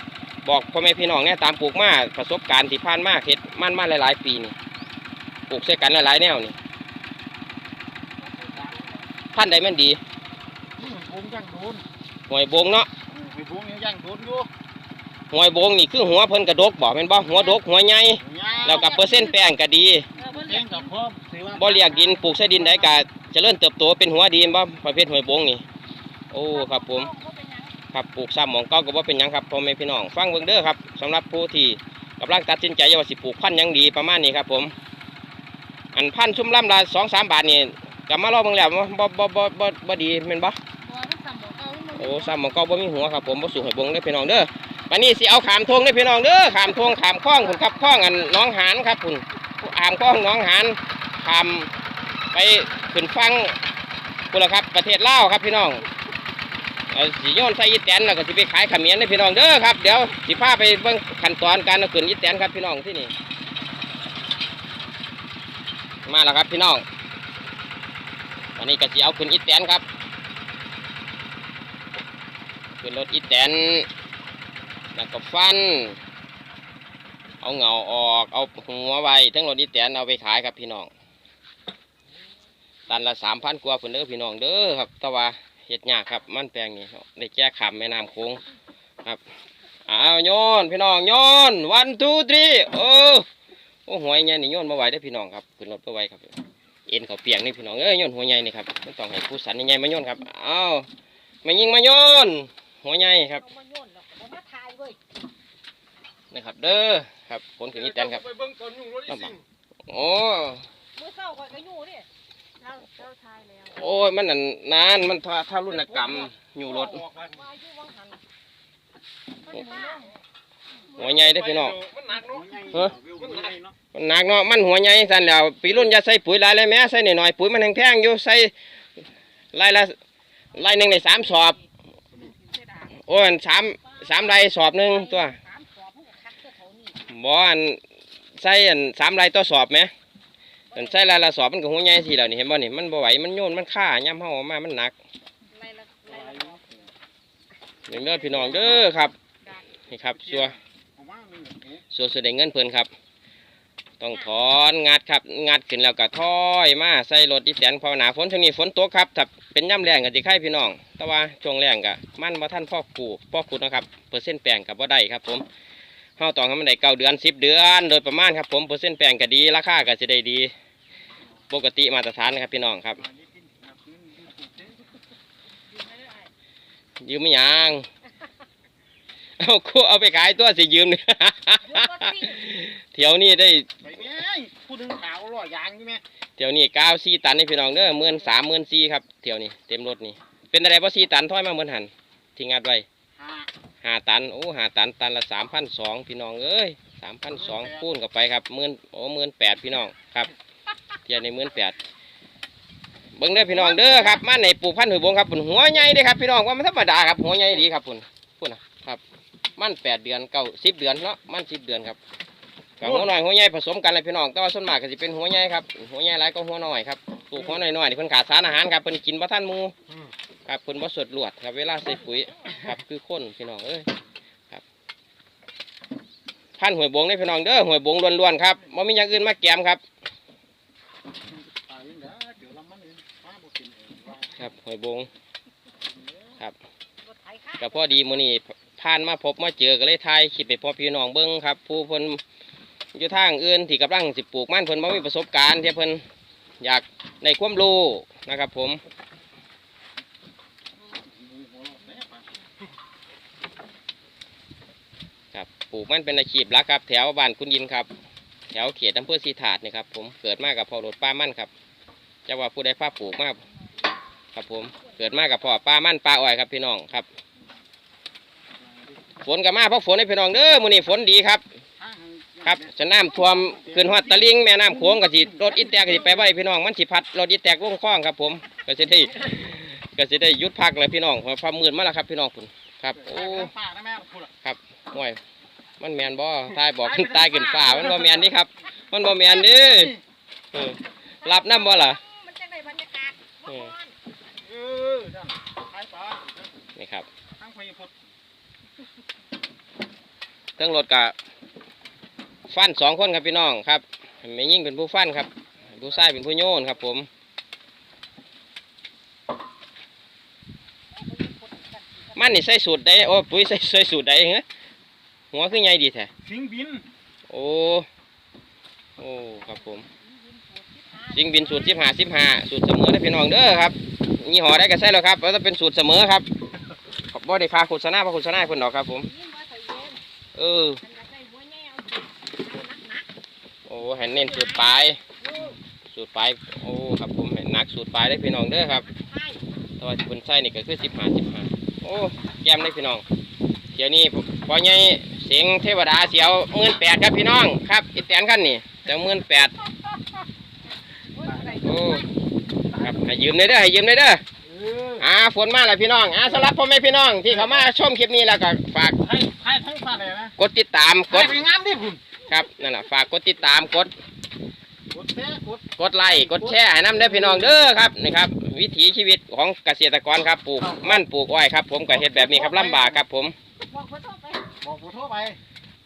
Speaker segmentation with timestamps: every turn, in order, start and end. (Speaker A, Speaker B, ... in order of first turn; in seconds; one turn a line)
Speaker A: 0.4-4.5
Speaker A: 5.5-6.5
Speaker B: 8.2-9.0
Speaker A: 9.3-10.0
Speaker C: 10.8-11.8
Speaker A: 12.3-12.9
Speaker C: 13.1-14.5
Speaker A: 15.3-20.1
Speaker B: 17.3-17.6
Speaker C: 18.2-19.3
Speaker B: 18.6-19.2
Speaker B: 20.2-20.9
Speaker C: 20.2-22.9
Speaker A: 21.5-25.6
Speaker A: 26.3-27.1
Speaker B: 26.4-27.7
Speaker A: 27.9-34.7
Speaker A: 35.9-40.6
Speaker B: 40.8-42.4
Speaker A: 41.9-51.7
Speaker A: 52.3-53.6
Speaker A: 54.3-55.8
Speaker A: 56.9-63.1
Speaker A: 66.0-66.8
Speaker A: 68.5-69.8
Speaker A: 72.8-73.9
Speaker A: 74.9-76.0
Speaker A: 77.4-80.9
Speaker A: 82.9-88.4
Speaker A: 89.9-93.2
Speaker A: 93.8-96.3
Speaker A: 96.9-100.8
Speaker A: 101.4-103.4
Speaker B: 103.4-105.0
Speaker A: 106.3-108.3
Speaker A: 108.9-110.6
Speaker B: 111.0-112.1
Speaker B: 112.6-114.0
Speaker A: 113.7-117.0
Speaker B: 116.6-118.2
Speaker B: 119.5-120.1
Speaker A: 119.5-119.9
Speaker A: 120.9-121.8
Speaker C: 122.1-123.7
Speaker A: 123.9-128.5
Speaker A: 129.5-129.9
Speaker A: 130.5-131.6
Speaker B: 132.2-132.9
Speaker A: 133.0-135.4
Speaker B: 133.8-137.0
Speaker A: 137.1-137.8
Speaker A: 138.4-139.9
Speaker B: 140.7-141.0
Speaker A: 140.7-144.9
Speaker B: 145.5-146.8
Speaker C: 146.1-146.6
Speaker A: 147.9-149.1
Speaker B: 147.9-148.6
Speaker A: 149.9-150.5
Speaker C: 150.1-151.8
Speaker A: 151.9-152.9
Speaker A: 154.0-165.4
Speaker A: 166.2-170.5
Speaker A: 171.5-173.0
Speaker C: 173.0-174.8
Speaker B: 175.7-176.3
Speaker A: 177.0-177.8
Speaker A: 179.4-183.7
Speaker B: 181.6-182.4
Speaker C: 183.8-186.0
Speaker A: 186.4-192.8
Speaker C: 193.2-193.5
Speaker A: 193.8-200.3
Speaker C: 197.4-197.8
Speaker A: 201.1-201.8
Speaker A: 203.2-209.0
Speaker B: 203.4-204.2
Speaker A: 209.6-212.0
Speaker A: 212.8-219.7
Speaker A: 220.5-223.9
Speaker B: 222.1-222.5
Speaker A: 226.6-229.8
Speaker C: 231.3-234.4
Speaker A: 234.3-235.1
Speaker B: 237.0-238.1
Speaker A: 237.6-242.2
Speaker A: 242.9-246.0
Speaker A: 246.6-248.8
Speaker C: 250.8-252.3
Speaker A: 255.3-257.9
Speaker A: 258.5-261.5
Speaker A: 262.2-263.4
Speaker A: 264.3-267.1
Speaker C: 268.6-269.0
Speaker A: 269.2-271.4
Speaker C: 271.8-274.2
Speaker A: 272.4-283.5
Speaker C: 275.2-275.6
Speaker C: 282.9-284.3
Speaker A: 284.4-285.2
Speaker A: 285.8-290.0
Speaker C: 287.0-288.0
Speaker A: 290.5-292.0
Speaker B: 291.2-293.9
Speaker A: 293.5-293.7
Speaker C: 294.4-296.4
Speaker A: 296.8-297.1
Speaker C: 297.4-297.9
Speaker A: 300.6-301.1
Speaker A: 302.5-307.1
Speaker B: 310.9-312.4
Speaker A: 312.1-314.4
Speaker A: 315.3-316.1
Speaker C: 316.2-316.9
Speaker A: 317.3-317.9
Speaker A: 319.0-319.9
Speaker B: 319.5-321.9
Speaker A: 321.1-326.3
Speaker A: 327.1-329.1
Speaker B: 329.0-330.0
Speaker A: 330.3-330.8
Speaker B: 330.8-333.1
Speaker A: 333.7-335.0
Speaker B: 334.1-335.6
Speaker A: 335.9-338.9
Speaker B: 338.6-339.4
Speaker A: 339.8-343.0
Speaker A: 343.7-349.5
Speaker B: 351.1-352.1
Speaker A: 351.6-352.1
Speaker A: 352.8-354.2
Speaker C: 354.5-355.0
Speaker A: 355.0-359.0
Speaker C: 357.3-357.6
Speaker C: 359.0-360.3
Speaker A: 360.4-361.4
Speaker C: 361.1-362.0
Speaker A: 362.3-363.9
Speaker C: 364.9-367.5
Speaker A: 365.8-373.3
Speaker C: 371.9-373.0
Speaker B: 373.6-374.5
Speaker C: 374.6-375.4